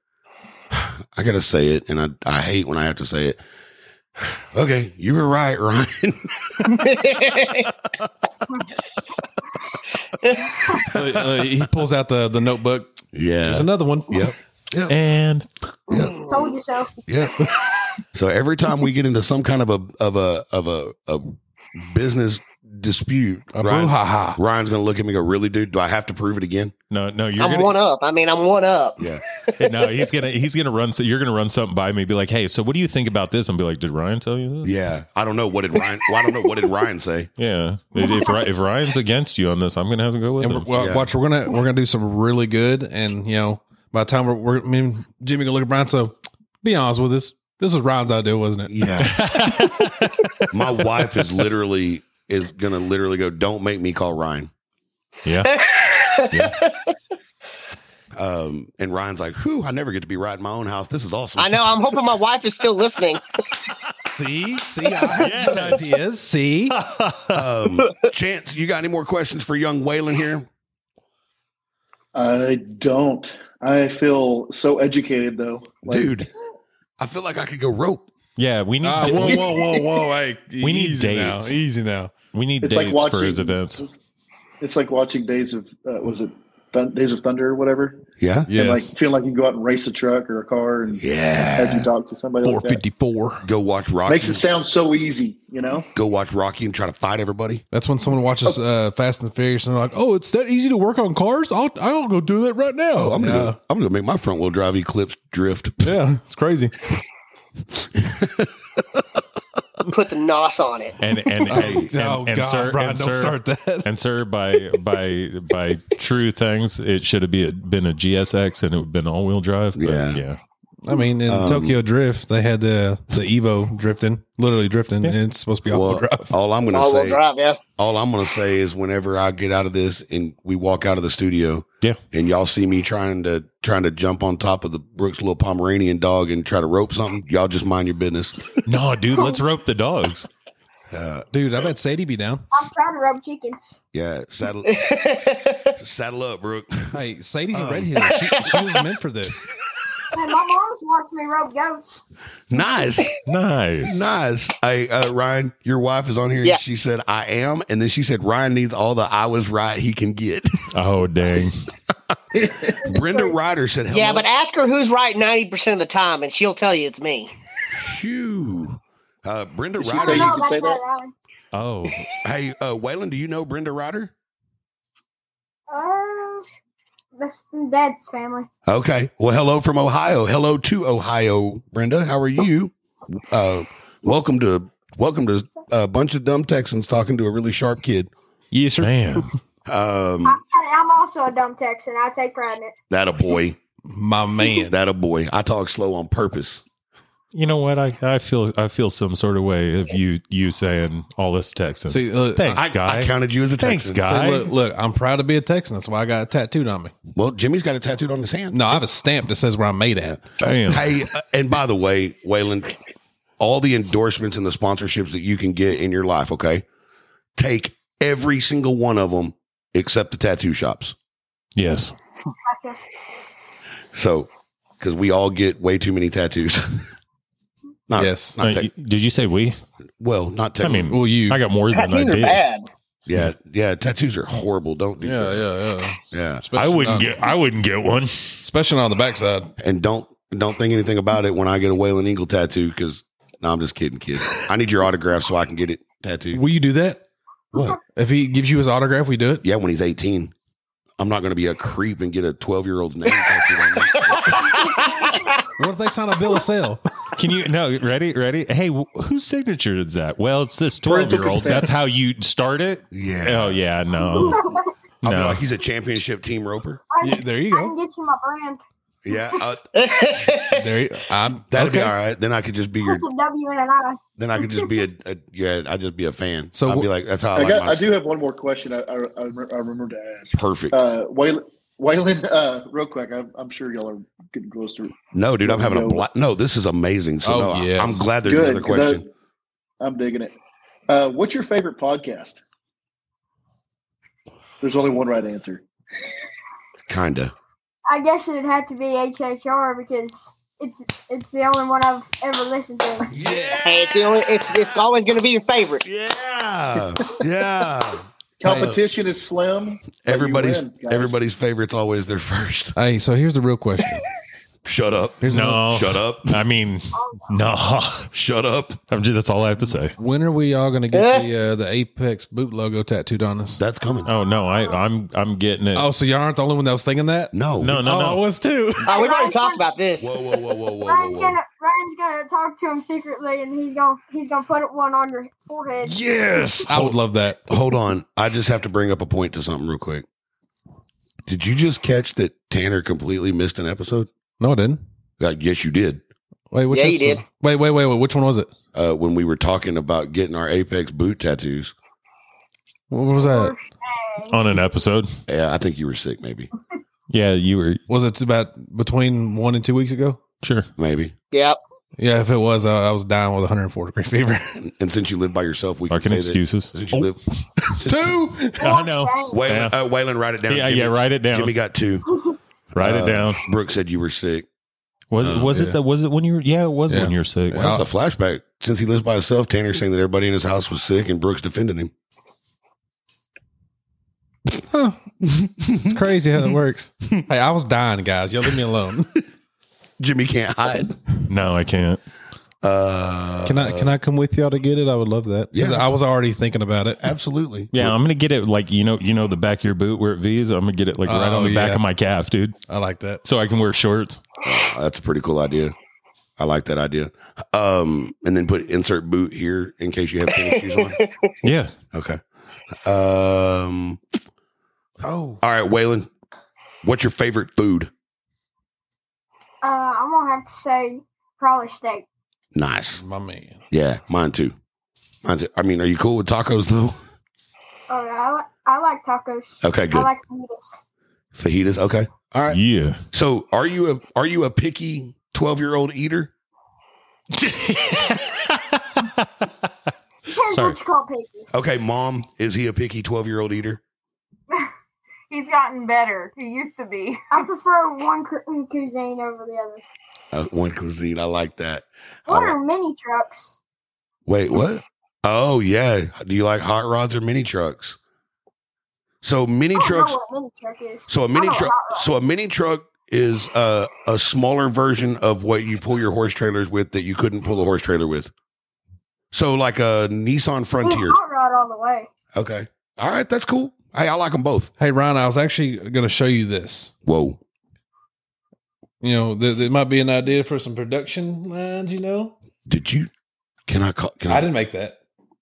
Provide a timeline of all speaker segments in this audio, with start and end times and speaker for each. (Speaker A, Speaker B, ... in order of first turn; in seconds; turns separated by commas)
Speaker A: 0.7-3.4, Speaker A: 4.2-6.7, Speaker B: 6.6-7.7, Speaker B: 10.2-10.6, Speaker C: 10.8-14.3, Speaker A: 10.9-11.4, Speaker A: 13.1-14.9, Speaker D: 14.9-15.5, Speaker A: 15.9-16.2, Speaker B: 15.9-16.4, Speaker E: 16.3-16.9, Speaker A: 17.1-17.4, Speaker A: 18.1-26.7, Speaker C: 23.5-24.4, Speaker D: 26.9-27.7, Speaker B: 27.4-29.9, Speaker D: 29.6-34.7, Speaker A: 34.6-37.3, Speaker D: 37.4-40.7, Speaker C: 40.4-49.7, Speaker A: 40.7-41.1, Speaker A: 48.7-49.2, Speaker D: 49.0-50.1, Speaker A: 50.5-54.5, Speaker D: 55.2-55.5, Speaker B: 55.4-57.0, Speaker A: 58.1-61.7, Speaker B: 61.4-63.2, Speaker C: 64.1-66.8, Speaker B: 64.8-65.9, Speaker D: 65.2-65.9, Speaker D: 66.7-67.4, Speaker A: 67.3-70.5, Speaker F: 72.1-76.2, Speaker A: 75.8-76.3, Speaker A: 77.0-78.1, Speaker D: 78.4-79.6, Speaker C: 78.8-82.1, Speaker D: 80.6-81.6, Speaker D: 82.3-83.8, Speaker F: 82.6-83.9, Speaker F: 84.6-91.0, Speaker A: 88.2-88.5, Speaker C: 88.5-88.9, Speaker A: 91.0-91.9, Speaker F: 91.5-92.8, Speaker C: 92.4-93.4, Speaker A: 93.4-94.4, Speaker F: 94.0-95.9, Speaker A: 95.9-97.6, Speaker C: 97.7-103.5, Speaker A: 103.0-106.0, Speaker C: 105.8-106.7, Speaker A: 107.7-109.0, Speaker B: 109.9-111.0, Speaker D: 111.0-120.4, Speaker C: 111.5-113.9, Speaker A: 111.5-111.9, Speaker A: 119.8-120.2, Speaker C: 120.8-126.3, Speaker A: 121.2-121.8, Speaker A: 125.7-127.2, Speaker B: 126.7-127.6, Speaker A: 127.8-138.5, Speaker D: 138.6-140.3, Speaker A: 140.9-141.3, Speaker C: 141.3-142.4, Speaker E: 142.5-143.8, Speaker A: 143.9-144.8, Speaker B: 144.7-145.7, Speaker A: 145.8-147.0, Speaker C: 146.9-149.4, Speaker A: 147.5-148.1, Speaker B: 148.1-148.8, Speaker E: 150.1-152.0, Speaker A: 152.5-153.1, Speaker D: 153.2-154.1, Speaker A: 153.8-160.7, Speaker D: 160.7-161.6, Speaker A: 162.6-164.3, Speaker E: 162.8-163.3, Speaker B: 163.9-167.3, Speaker A: 167.7-170.5, Speaker F: 169.8-170.8, Speaker E: 170.0-171.1, Speaker D: 171.5-172.1, Speaker A: 172.2-174.1, Speaker E: 175.7-176.4, Speaker E: 177.2-178.5, Speaker A: 178.7-188.1, Speaker C: 188.5-189.2, Speaker D: 188.8-189.3, Speaker A: 189.7-190.4, Speaker E: 190.2-192.7, Speaker A: 192.9-193.6, Speaker C: 193.9-194.8, Speaker A: 194.6-196.6, Speaker D: 197.3-204.5, Speaker C: 201.9-202.7, Speaker A: 202.5-204.0, Speaker C: 204.0-206.9, Speaker A: 207.1-208.8, Speaker C: 208.5-210.2, Speaker D: 210.4-211.0, Speaker A: 210.7-212.8, Speaker A: 213.4-216.6, Speaker A: 217.3-220.9, Speaker D: 221.5-221.9, Speaker E: 222.5-222.8, Speaker A: 223.9-224.3, Speaker A: 224.8-226.8, Speaker A: 227.9-228.7, Speaker C: 228.0-228.4, Speaker D: 228.4-229.6, Speaker A: 230.0-230.9, Speaker D: 230.6-232.4, Speaker C: 230.9-231.4, Speaker B: 231.7-232.7, Speaker A: 233.1-235.4, Speaker C: 235.0-237.2, Speaker A: 236.1-236.4, Speaker D: 236.6-238.4, Speaker C: 238.4-239.5, Speaker A: 239.6-246.4, Speaker C: 246.3-247.0, Speaker A: 247.5-247.8, Speaker C: 247.9-249.4, Speaker A: 249.4-250.3, Speaker A: 251.0-254.5, Speaker B: 254.0-255.5, Speaker E: 254.7-255.3, Speaker C: 255.6-256.8, Speaker D: 257.1-264.4, Speaker F: 260.9-261.7, Speaker A: 262.9-263.6, Speaker E: 264.1-264.7, Speaker A: 265.0-266.8, Speaker D: 265.0-265.4, Speaker E: 266.9-268.6, Speaker C: 267.0-267.7, Speaker A: 269.0-269.6, Speaker B: 269.7-270.7, Speaker C: 270.5-271.9, Speaker A: 271.5-273.0, Speaker E: 272.8-274.7, Speaker A: 274.2-277.9, Speaker C: 276.5-276.9, Speaker F: 277.3-286.0, Speaker A: 280.3-280.8, Speaker A: 285.1-289.0, Speaker C: 287.2-288.1, Speaker F: 288.2-289.1, Speaker F: 289.8-290.4, Speaker F: 290.9-292.4, Speaker F: 294.6-295.6, Speaker A: 296.9-297.3, Speaker E: 297.9-303.1, Speaker A: 303.1-304.4, Speaker C: 303.2-303.6, Speaker B: 303.6-305.8, Speaker A: 305.8-308.8, Speaker F: 308.4-311.2, Speaker A: 310.0-312.7, Speaker C: 312.7-314.0, Speaker A: 314.6-316.4, Speaker C: 315.2-315.6, Speaker D: 315.3-318.1, Speaker E: 316.9-317.3, Speaker A: 318.1-318.8, Speaker D: 318.9-319.9, Speaker C: 319.9-323.6, Speaker B: 320.9-321.3, Speaker A: 323.6-324.1, Speaker D: 324.1-325.9, Speaker E: 324.2-324.8, Speaker C: 325.7-328.9, Speaker A: 327.3-327.8, Speaker D: 327.6-328.2, Speaker B: 328.8-330.1, Speaker E: 328.9-329.6, Speaker A: 330.0-331.4, Speaker E: 330.8-336.0, Speaker C: 335.8-337.4, Speaker A: 336.7-337.0, Speaker A: 337.5-340.1, Speaker A: 341.2-344.1, Speaker C: 344.4-344.8, Speaker A: 345.2-346.0, Speaker C: 346.5-348.5, Speaker B: 346.7-347.2, Speaker A: 348.7-351.7, Speaker C: 352.9-353.5, Speaker E: 353.1-354.4, Speaker D: 354.3-355.1, Speaker A: 355.3-356.5, Speaker D: 357.1-357.8, Speaker C: 357.9-360.2, Speaker D: 360.4-360.7, Speaker A: 360.8-361.1, Speaker B: 361.3-361.6, Speaker C: 362.0-364.6, Speaker A: 364.6-367.2, Speaker D: 365.9-366.8, Speaker C: 367.6-368.7, Speaker A: 367.8-368.2, Speaker D: 368.6-369.7, Speaker E: 368.6-369.4, Speaker A: 369.3-372.1, Speaker D: 370.5-371.5, Speaker D: 372.8-373.4, Speaker A: 372.8-374.5, Speaker D: 375.1-377.7, Speaker A: 375.2-375.5, Speaker C: 375.5-375.8, Speaker C: 376.9-377.9, Speaker A: 377.5-381.9, Speaker C: 384.7-385.0, Speaker A: 385.3-386.0, Speaker C: 385.8-389.2, Speaker A: 390.0-391.0, Speaker D: 391.3-392.0, Speaker A: 392.6-393.9, Speaker C: 393.4-397.0, Speaker A: 395.5-395.9, Speaker A: 397.0-397.9, Speaker D: 397.7-402.6, Speaker C: 401.1-401.8, Speaker C: 402.7-403.2, Speaker D: 403.2-404.2, Speaker A: 404.4-405.7, Speaker A: 406.4-411.0, Speaker B: 410.5-411.3, Speaker D: 411.4-411.7, Speaker A: 411.9-412.2, Speaker A: 412.8-414.0, Speaker C: 415.0-415.4, Speaker A: 415.4-416.1, Speaker A: 416.8-417.9, Speaker E: 419.6-422.1, Speaker A: 422.5-423.0, Speaker C: 423.0-423.6, Speaker A: 423.7-424.5, Speaker A: 425.2-427.0, Speaker E: 427.9-430.8, Speaker A: 429.6-430.1, Speaker A: 431.3-432.6, Speaker D: 432.5-433.0, Speaker A: 433.1-436.3, Speaker D: 437.3-439.5, Speaker E: 440.3-441.5, Speaker D: 440.4-440.8, Speaker A: 441.5-443.8, Speaker G: 445.3-447.4, Speaker E: 447.3-449.8, Speaker A: 450.3-452.6, Speaker E: 452.3-453.6, Speaker A: 454.2-458.0, Speaker A: 459.2-460.2, Speaker E: 459.7-462.1, Speaker A: 461.1-468.3, Speaker A: 469.3-471.2, Speaker E: 470.8-472.1, Speaker A: 472.3-474.7, Speaker C: 474.8-476.9, Speaker A: 477.1-477.4, Speaker C: 479.0-482.3, Speaker A: 482.6-483.1, Speaker A: 483.7-484.5, Speaker C: 484.3-484.9